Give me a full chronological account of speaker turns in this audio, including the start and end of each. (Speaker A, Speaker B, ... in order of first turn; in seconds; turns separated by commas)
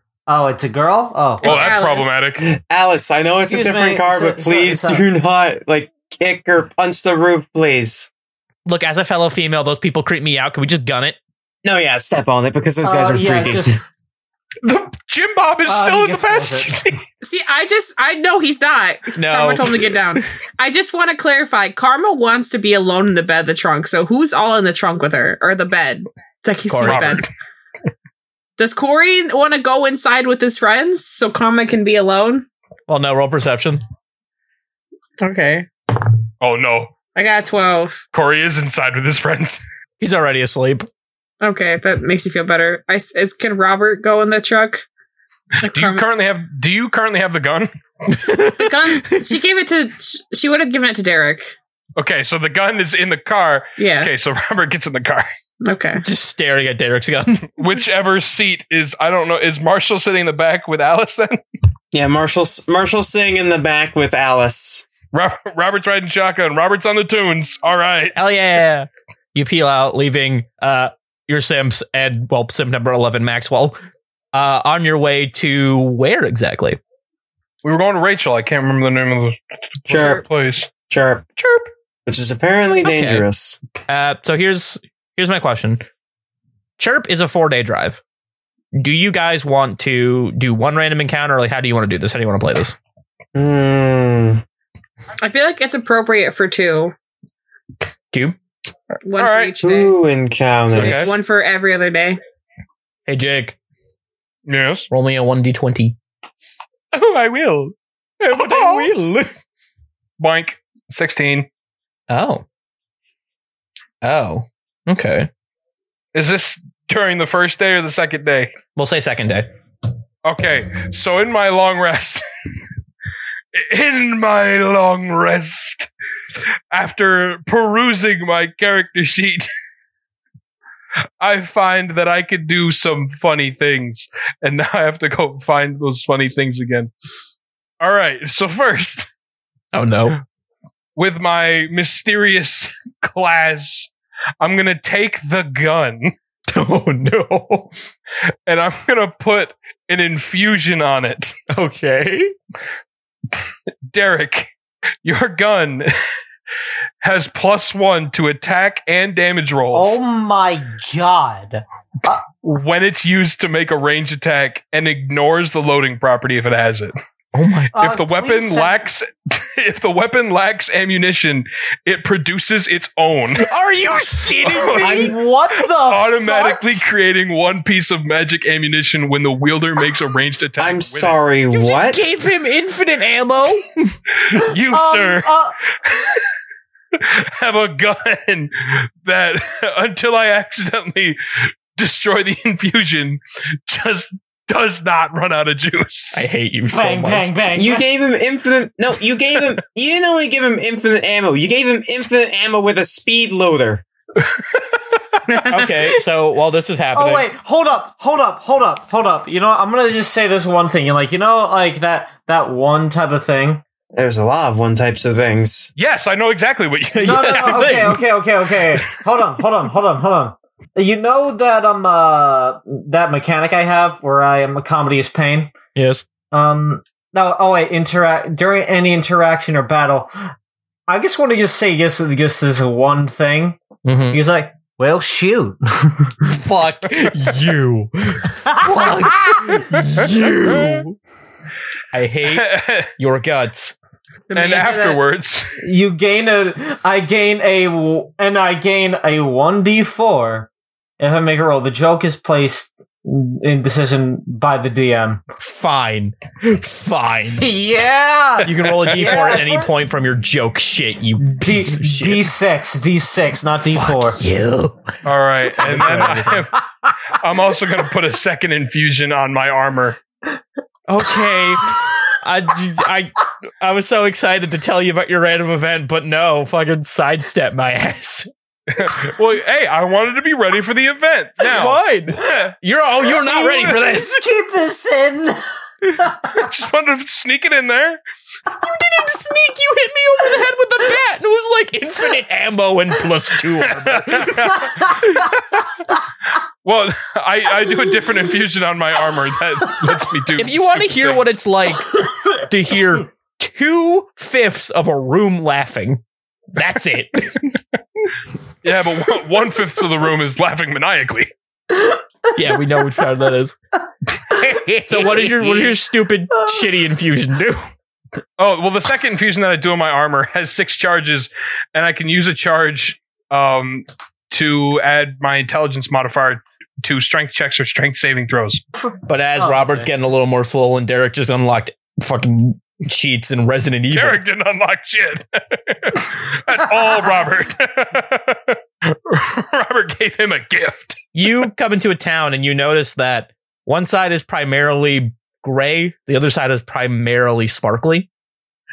Speaker A: 0.3-1.7, Speaker B: 1.4-2.2, Speaker C: 1.4-2.5, Speaker D: 2.4-8.1, Speaker A: 3.4-5.0, Speaker E: 8.7-11.2, Speaker D: 11.6-13.8, Speaker A: 12.8-13.8, Speaker C: 14.6-17.0, Speaker A: 15.7-16.8, Speaker B: 17.2-27.3, Speaker E: 19.1-20.2, Speaker E: 26.7-27.2, Speaker C: 26.8-27.3, Speaker B: 28.6-32.5, Speaker E: 32.9-33.8, Speaker B: 35.2-35.7, Speaker C: 36.4-37.0, Speaker B: 37.1-38.0, Speaker C: 38.1-39.6, Speaker E: 40.0-40.9, Speaker B: 41.4-44.8, Speaker B: 45.6-46.0, Speaker C: 45.6-47.7, Speaker E: 48.1-49.4, Speaker B: 48.6-51.5, Speaker C: 52.0-55.3, Speaker B: 53.8-54.1, Speaker B: 55.6-56.0, Speaker E: 56.0-57.6, Speaker C: 57.5-61.4, Speaker D: 61.9-64.9, Speaker C: 65.1-68.2, Speaker E: 68.1-73.8, Speaker E: 74.3-76.8, Speaker C: 77.6-80.7, Speaker D: 79.9-80.2, Speaker D: 80.9-83.6, Speaker E: 82.8-83.2, Speaker E: 83.9-85.8, Speaker E: 86.8-88.0, Speaker E: 88.7-92.8, Speaker D: 93.3-94.4, Speaker B: 95.2-96.9, Speaker E: 98.1-98.4, Speaker B: 99.0-99.9, Speaker C: 99.2-99.5, Speaker D: 99.6-101.2, Speaker B: 100.7-102.2, Speaker C: 100.8-101.1, Speaker E: 103.1-103.5, Speaker C: 104.5-104.9, Speaker E: 104.9-106.0, Speaker C: 106.9-107.7, Speaker E: 108.2-109.3, Speaker C: 108.3-108.9, Speaker C: 110.2-111.5, Speaker E: 112.1-112.4, Speaker E: 114.0-115.3, Speaker C: 116.1-118.5, Speaker E: 118.8-119.5, Speaker C: 120.2-122.2, Speaker C: 123.5-125.9, Speaker C: 126.7-129.5, Speaker C: 131.2-136.9, Speaker C: 137.8-139.1, Speaker E: 139.7-140.2, Speaker C: 140.9-146.1, Speaker E: 146.5-147.7, Speaker C: 148.4-151.3, Speaker E: 151.5-152.3, Speaker C: 153.9-154.5, Speaker C: 155.0-155.9, Speaker C: 157.0-160.0, Speaker A: 159.7-162.2, Speaker C: 162.4-166.9, Speaker E: 167.3-167.7, Speaker A: 167.7-168.8, Speaker C: 167.8-173.5, Speaker E: 173.4-175.1, Speaker C: 174.4-175.1, Speaker A: 174.6-176.8, Speaker C: 175.7-181.2, Speaker D: 180.6-182.0, Speaker E: 181.5-183.9, Speaker C: 184.3-185.3, Speaker A: 184.6-185.6, Speaker C: 185.8-186.2, Speaker C: 186.9-191.2, Speaker C: 191.7-196.3, Speaker E: 196.1-197.3, Speaker A: 196.7-197.8, Speaker D: 197.5-203.8, Speaker C: 204.2-204.8, Speaker B: 205.3-206.0, Speaker E: 205.4-207.2, Speaker A: 206.9-213.6, Speaker D: 213.9-215.7, Speaker C: 215.8-217.7, Speaker E: 216.9-218.0, Speaker A: 217.0-225.5, Speaker E: 225.7-226.1, Speaker A: 226.3-230.3, Speaker A: 230.9-236.3, Speaker E: 233.8-234.2, Speaker E: 236.2-241.0, Speaker A: 238.5-239.3, Speaker A: 239.9-240.7, Speaker E: 241.9-243.7, Speaker C: 242.2-242.9, Speaker B: 244.3-245.0, Speaker C: 244.3-245.6, Speaker A: 245.6-255.2, Speaker E: 255.4-257.4, Speaker A: 257.4-259.7, Speaker E: 258.4-262.3, Speaker C: 258.6-259.4, Speaker A: 261.2-264.2, Speaker E: 263.7-265.0, Speaker C: 265.0-270.0, Speaker E: 265.6-266.3, Speaker A: 265.6-266.4, Speaker E: 270.9-278.3, Speaker C: 278.7-282.5, Speaker E: 281.4-284.2, Speaker A: 283.2-285.4, Speaker A: 286.0-286.4, Speaker C: 286.3-288.0, Speaker E: 288.6-295.3, Speaker C: 293.6-295.6, Speaker C: 296.6-301.3, Speaker E: 300.4-306.0, Speaker E: 306.5-307.6, Speaker C: 308.6-311.3, Speaker E: 312.3-313.6, Speaker C: 314.2-315.8, Speaker E: 314.7-317.6, Speaker C: 318.4-328.6, Speaker E: 329.1-334.2, Speaker A: 329.4-329.9, Speaker C: 333.9-341.0, Speaker E: 341.1-348.1